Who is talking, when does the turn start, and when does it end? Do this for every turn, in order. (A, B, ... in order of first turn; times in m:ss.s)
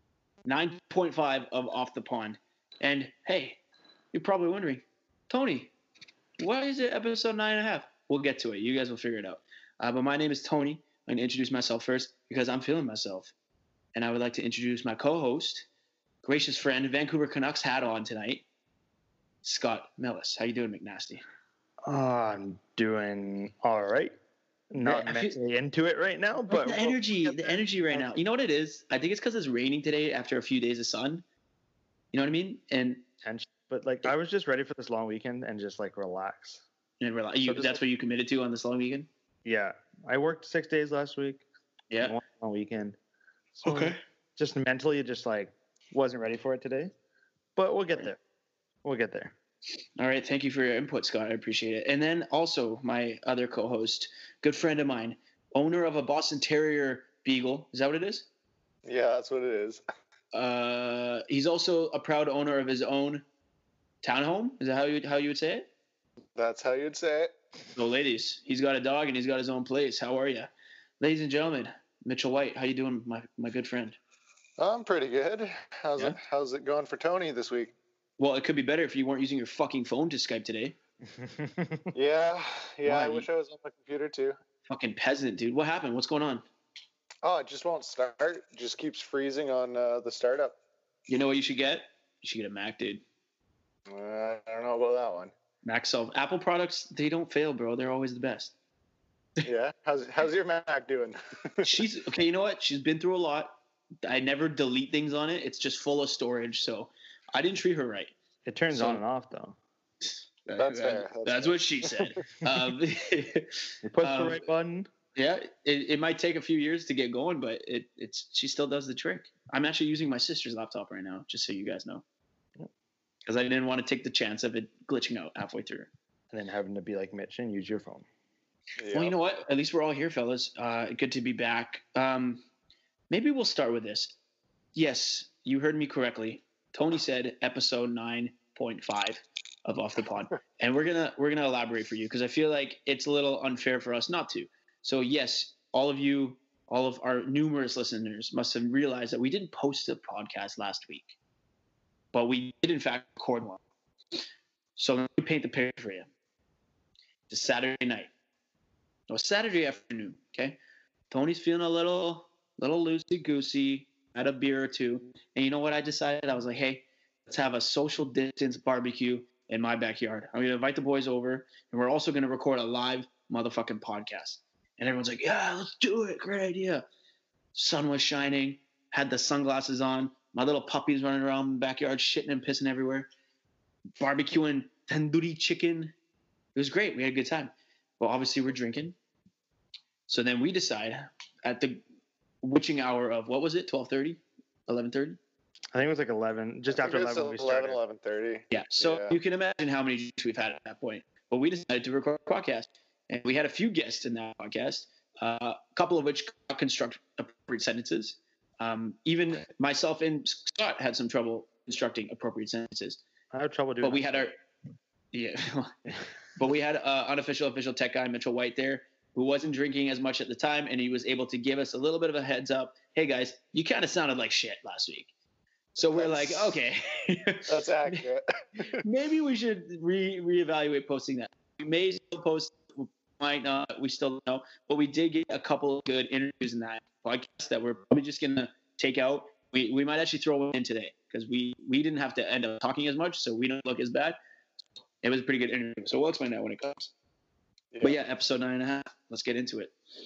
0:00.4-0:03.6 A
0:04.1-0:05.7 A
0:06.4-0:13.3 A
0:13.9-0:15.7 A
0:16.2-0:18.4 A
0:19.4-0:21.2 A
0:21.8-0:24.2 B
0:24.7-0:28.2 B
0:24.8-0:25.4 A
0:26.5-0:31.2 A
0:32.1-0:33.0 A
0:33.2-0:36.6 B
0:37.0-0:39.1 A
0:37.4-0:37.8 B
0:39.4-0:41.4 B
0:41.9-0:42.2 A
0:42.0-0:43.0 B
0:43.5-0:46.9 B
0:43.6-0:44.0 A
0:47.6-0:48.2 B
0:48.8-0:49.3 B
0:50.0-0:58.3 A
0:58.8-0:59.8 C
1:00.3-1:03.2 A
1:04.0-1:05.7 A
1:06.3-1:07.3 C
1:07.7-1:14.0 A
1:14.6-1:17.7 C
1:18.2-1:20.8 A
1:21.1-1:21.9 B
1:21.9-1:24.4 C
1:22.8-1:23.3 A
1:24.7-1:26.4 A
1:27.2-1:30.6 C
1:31.1-1:33.0 A
1:33.9-1:35.3 C
1:35.6-1:38.5 A
1:39.4-1:41.6 C
1:41.6-1:48.1 A
1:48.4-1:49.6 B
1:48.7-1:49.0 A
1:50.0-1:54.4 A
1:50.6-1:52.1 C
1:53.8-1:54.9 B
1:55.2-2:02.0 A
2:03.2-2:05.9 A
2:06.3-2:08.0 B
2:08.8-2:09.2 C
2:08.9-2:12.4 A
2:13.1-2:14.1 A
2:14.7-2:31.1 A
2:32.1-2:33.6 A
2:34.8-2:36.1 A
2:37.3-2:38.1 A
2:39.1-2:40.6 A
2:41.1-2:56.8 A
2:57.5-3:03.1 A
3:04.0-3:05.9 A
3:06.5-3:08.9 A
3:10.1-3:11.8 A
3:12.4-3:15.2 A
3:15.7-3:17.8 B
3:16.7-3:19.1 C
3:18.5-3:33.0 A
3:33.3-3:34.3 B
3:33.8-3:34.4 A
3:35.1-3:35.7 A
3:36.4-3:45.1 A
3:45.7-3:48.1 A
3:45.8-3:46.5 C
3:47.5-3:48.8 C
3:48.6-4:04.2 A
4:05.0-4:06.9 A
4:07.8-4:09.7 A